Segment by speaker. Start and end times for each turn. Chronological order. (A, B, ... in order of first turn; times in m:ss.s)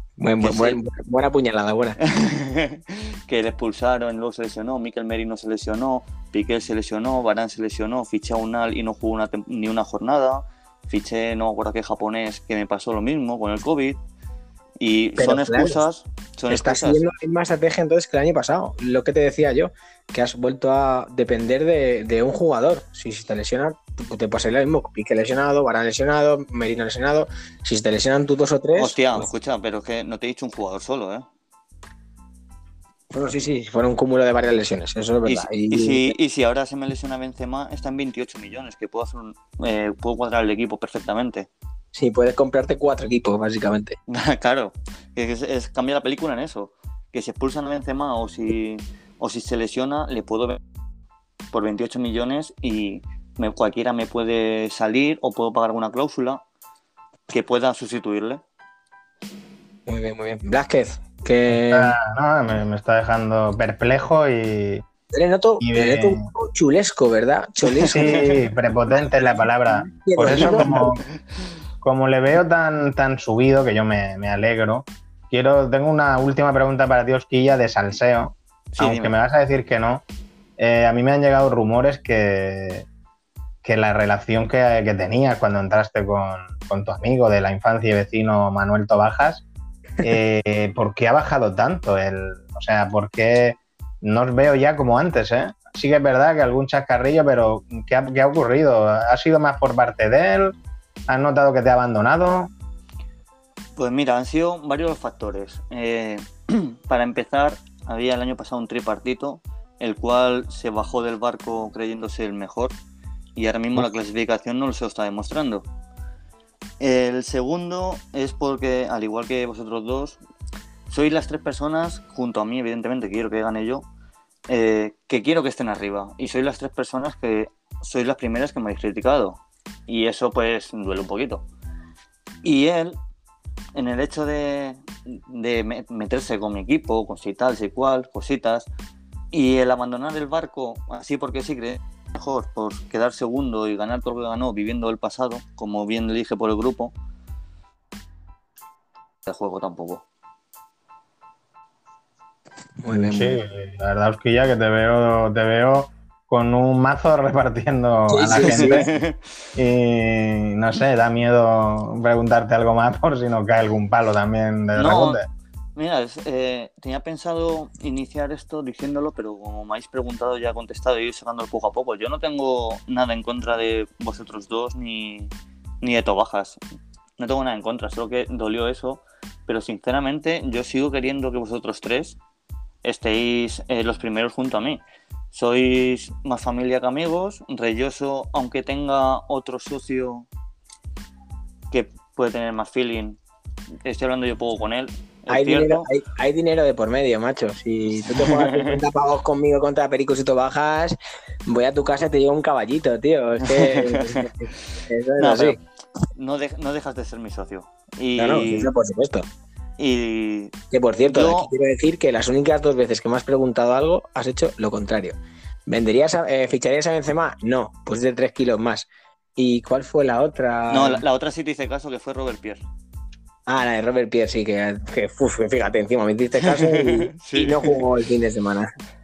0:00.2-0:02.0 A
0:00.4-0:00.8 B
0:02.0-0:14.0 B
0:14.8-0:17.0 B
0:15.2-0:15.8 A
0:16.5-0:29.2 A
0:28.8-0:31.2 B
0:33.1-0:36.1 A
0:35.2-0:41.5 B
0:41.9-0:44.0 A
0:44.1-0:50.6 B
0:51.5-0:56.4 B
0:57.3-0:58.4 B
0:59.9-1:02.0 A
1:01.5-1:04.8 C
1:05.1-1:08.3 A
1:05.6-1:06.2 C
1:07.8-1:11.0 C
1:08.9-1:10.9 A
1:11.8-1:20.0 C
1:18.7-1:19.1 B
1:20.6-1:22.8 C
1:23.6-1:29.4 C
1:30.0-1:40.5 C
1:41.1-1:42.5 C
1:43.8-1:52.8 B
1:53.4-1:55.7 B
1:56.8-2:00.2 B
2:00.9-2:03.9 B
2:04.5-2:11.5 B
2:12.4-2:13.0 B
2:13.7-2:18.7 B
2:19.3-2:26.9 B
2:29.2-2:30.0 B
2:32.8-2:33.4 A
2:32.9-2:38.9 C
2:38.1-2:38.9 A
2:38.4-2:39.2 B
2:39.6-2:45.2 C
2:44.7-2:45.2 B
2:45.7-2:56.6 B
2:57.2-3:02.2 B
3:02.8-3:10.3 B
3:11.7-3:13.2 B
3:13.8-3:15.9 B
3:15.3-3:25.6 A
3:18.1-3:18.8 B
3:23.9-3:24.2 B
3:25.2-3:25.6 B
3:26.1-3:28.7 B
3:28.2-3:29.3 A
3:29.8-3:31.5 B
3:30.7-3:41.0 A
3:40.7-3:42.6 B
3:43.5-3:48.7 A
3:46.6-3:47.8 B